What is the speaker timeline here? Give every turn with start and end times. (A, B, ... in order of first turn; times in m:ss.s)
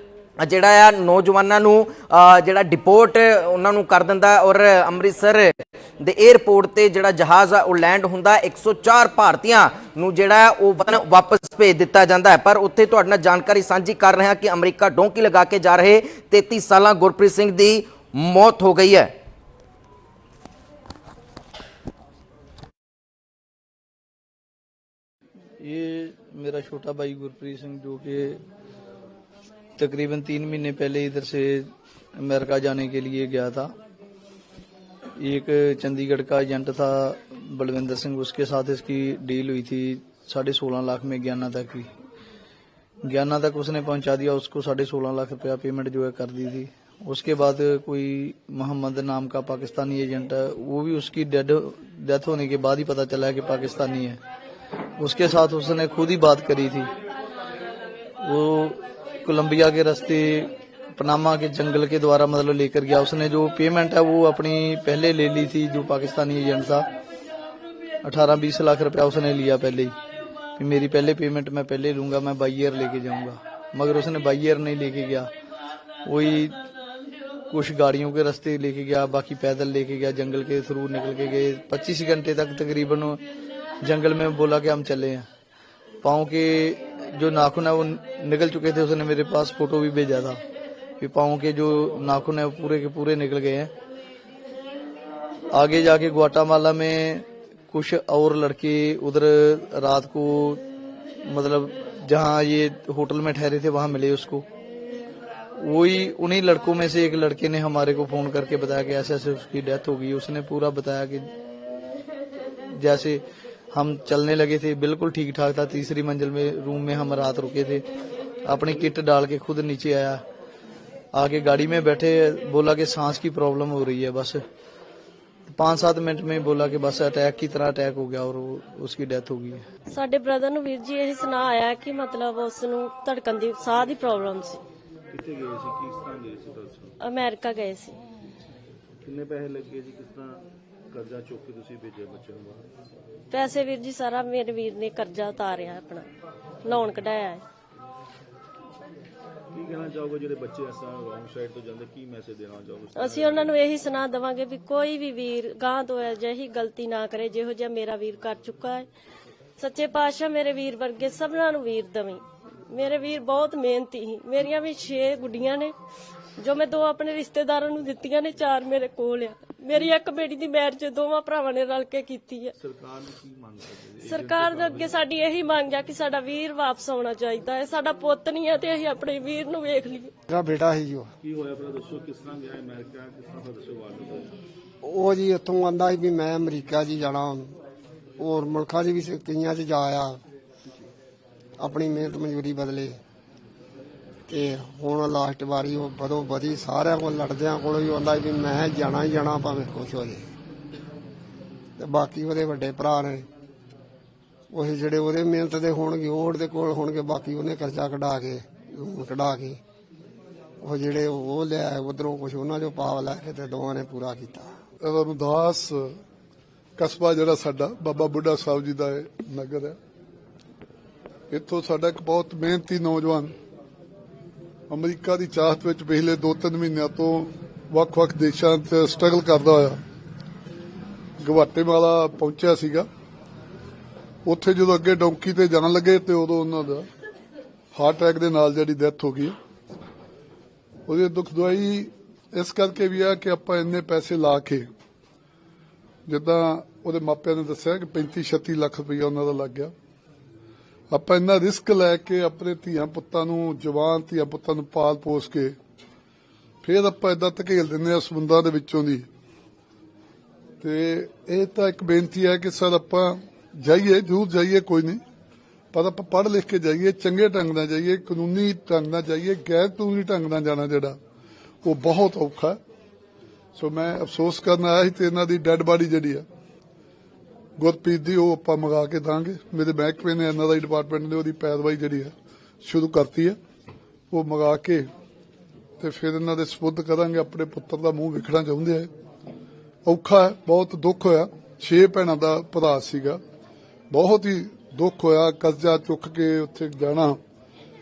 0:00.4-0:19.1 A
0:25.6-0:28.4 B
0:29.8-0:33.7 B
0:35.2-0:41.9 B
0:43.1-0:54.2 B
0:55.0-0:56.9 B
0:58.2-1:06.8 B
1:08.0-1:10.0 B
1:10.6-1:15.3 B
1:16.1-1:16.6 B
1:17.5-1:23.2 B
1:23.8-1:25.3 B
1:26.0-1:30.4 B
1:31.0-1:33.7 B
1:35.5-1:40.6 B
1:41.3-1:44.4 B
1:45.6-1:51.3 B
1:52.7-1:53.2 B
1:53.7-1:57.8 B
1:58.4-2:00.2 B
2:01.1-2:04.4 B
2:05.5-2:09.6 B
2:09.9-2:14.6 C
2:15.1-2:16.9 D
2:17.0-2:18.0 C
2:19.0-2:22.7 D
2:23.3-2:26.1 C
2:26.6-2:27.4 C
2:29.5-2:33.5 D
2:33.0-2:38.9 C
2:39.6-2:45.7 C
2:46.4-2:52.5 C
2:52.6-2:54.9 D
2:54.0-3:00.1 C
3:00.3-3:01.1 E
3:01.2-3:04.3 D
3:04.8-3:07.6 E
3:08.2-3:10.2 E
3:11.6-3:13.0 E
3:14.3-3:20.3 E
3:21.8-3:23.3 E
3:24.5-3:29.6 E
3:30.6-3:34.5 E
3:34.8-3:36.0 F
3:36.8-3:39.8 F
3:41.3-3:43.3 F
3:44.7-3:49.8 F
3:51.2-3:52.9 F
3:54.2-3:56.9 F
3:57.7-3:59.3 F
4:00.9-4:04.7 F
4:06.1-4:09.7 F
4:10.9-4:15.6 F
4:16.6-4:19.1 F
4:20.6-4:25.0 F
4:25.7-4:31.0 F
4:31.6-4:32.6 F
4:33.6-4:36.2 F
4:37.6-4:43.4 F
4:44.1-4:44.9 F
4:45.8-4:48.9 F
4:49.8-4:53.2 F
4:53.9-4:57.2 F